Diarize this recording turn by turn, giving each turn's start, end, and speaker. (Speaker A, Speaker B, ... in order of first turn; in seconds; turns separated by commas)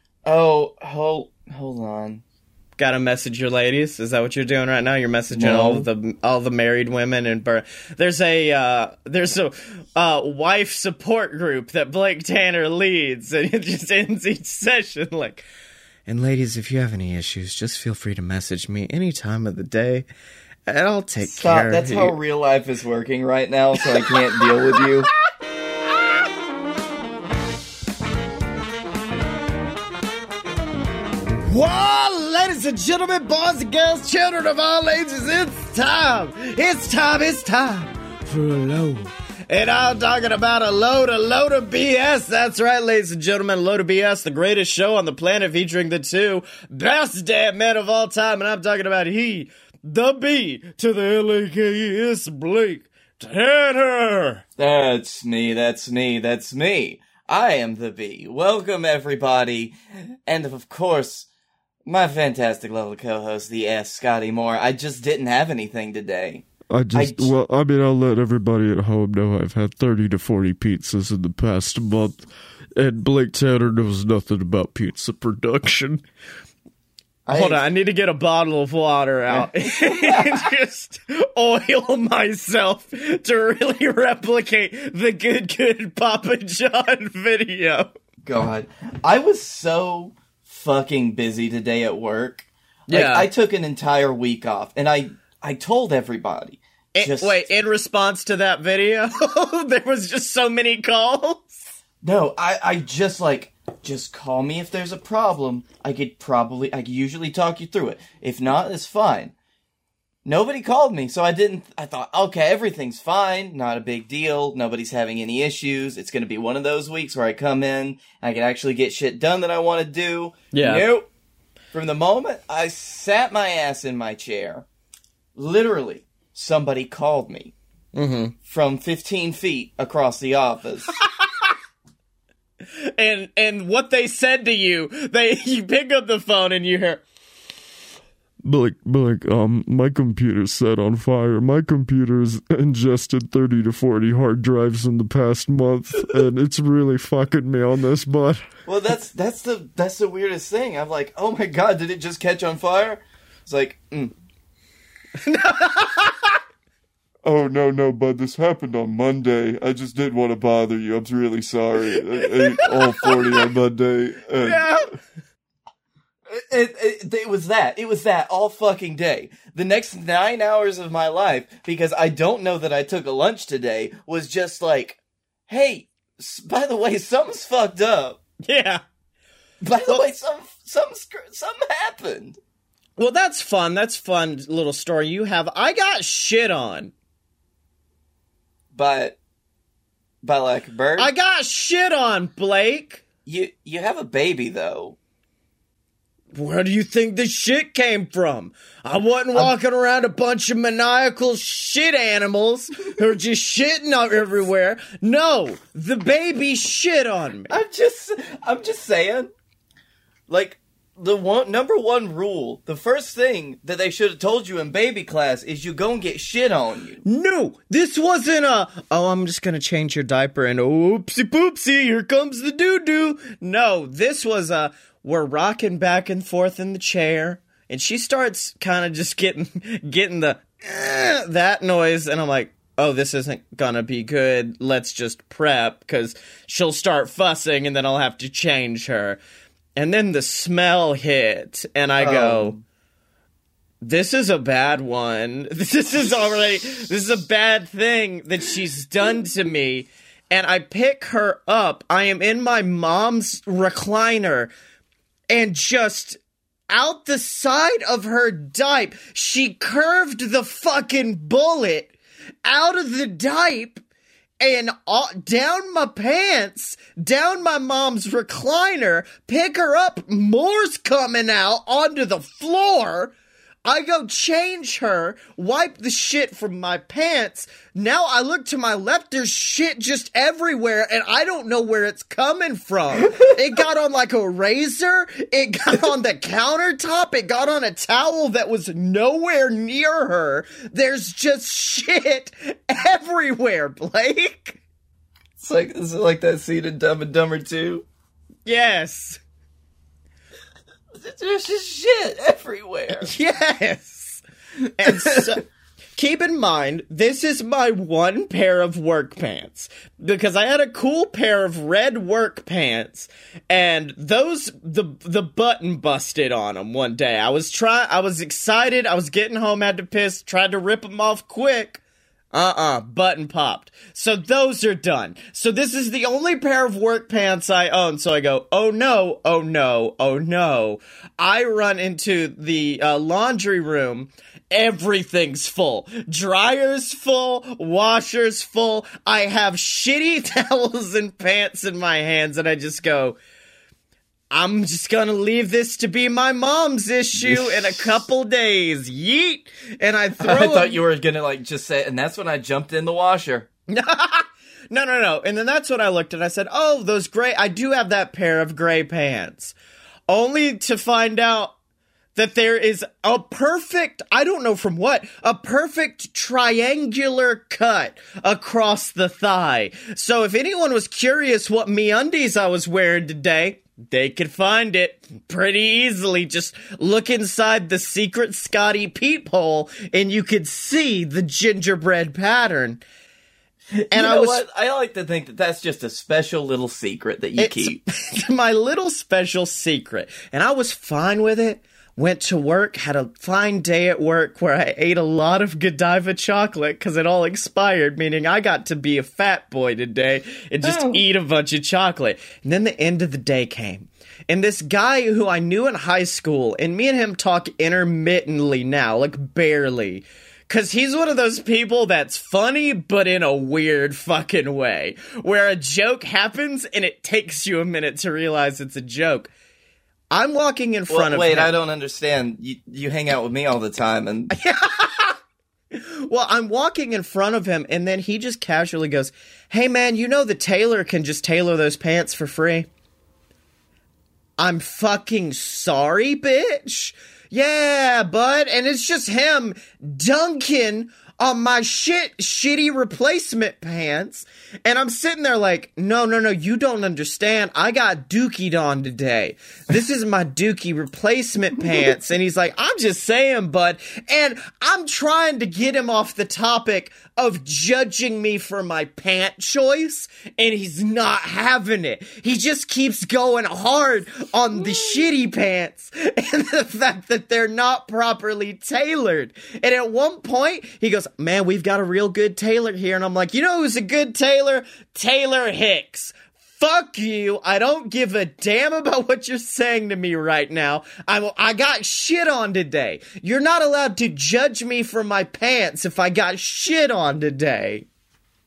Speaker A: 0.2-2.2, Speaker B: 2.8-15.4, Speaker A: 5.3-5.9, Speaker B: 16.1-20.1, Speaker B: 20.7-22.1, Speaker A: 21.2-25.1, Speaker B: 31.4-54.4, Speaker A: 54.6-59.7, Speaker A: 60.2-61.3, Speaker A: 61.9-67.3, Speaker C: 66.7-72.2, Speaker C: 72.8-76.0, Speaker A: 77.2-77.6, Speaker B: 77.3-87.9, Speaker A: 79.3-80.5, Speaker A: 88.2-97.5, Speaker B: 92.9-93.3, Speaker B: 96.9-101.6, Speaker A: 102.0-109.3, Speaker A: 110.2-121.1, Speaker B: 120.5-120.8, Speaker A: 121.7-124.7, Speaker A: 125.3-127.5, Speaker B: 127.9-128.3, Speaker A: 128.5-130.9, Speaker B: 131.2-131.5, Speaker B: 132.8-137.0, Speaker C: 138.4-148.4, Speaker A: 148.7-154.1, Speaker B: 155.2-156.4, Speaker C: 157.2-164.7, Speaker B: 162.2-163.4, Speaker B: 164.4-164.9, Speaker A: 166.3-178.2, Speaker B: 178.4-178.8, Speaker A: 179.6-182.4, Speaker B: 179.8-180.1, Speaker B: 183.0-186.9, Speaker A: 188.7-189.2, Speaker A: 190.2-191.1, Speaker B: 191.0-193.0, Speaker A: 193.2-195.0, Speaker B: 196.3-207.6, Speaker A: 207.5-209.3, Speaker A: 210.3-217.0, Speaker B: 217.0-239.2, Speaker B: 239.8-242.5, Speaker A: 242.0-242.6, Speaker B: 243.8-254.5, Speaker B: 255.3-261.9, Speaker B: 262.4-263.8, Speaker B: 264.4-273.1, Speaker B: 273.6-294.6, Speaker A: 295.4-297.9, Speaker B: 298.4-299.2, Speaker A: 300.9-303.1, Speaker B: 303.0-304.2, Speaker B: 304.8-305.4, Speaker A: 304.8-305.3, Speaker B: 305.9-321.8, Speaker B: 322.3-343.2, Speaker B: 344.3-350.8, Speaker A: 347.1-348.0, Speaker A: 350.2-353.5, Speaker B: 353.7-359.5, Speaker B: 360.1-361.5, Speaker B: 362.1-382.8, Speaker A: 383.7-387.8, Speaker B: 383.9-384.4, Speaker B: 387.4-419.3, Speaker A: 400.6-401.0, Speaker B: 420.1-421.5, Speaker A: 420.9-424.3, Speaker B: 424.3-425.2, Speaker B: 425.7-432.7, Speaker B: 434.4-487.9, Speaker A: 464.6-465.0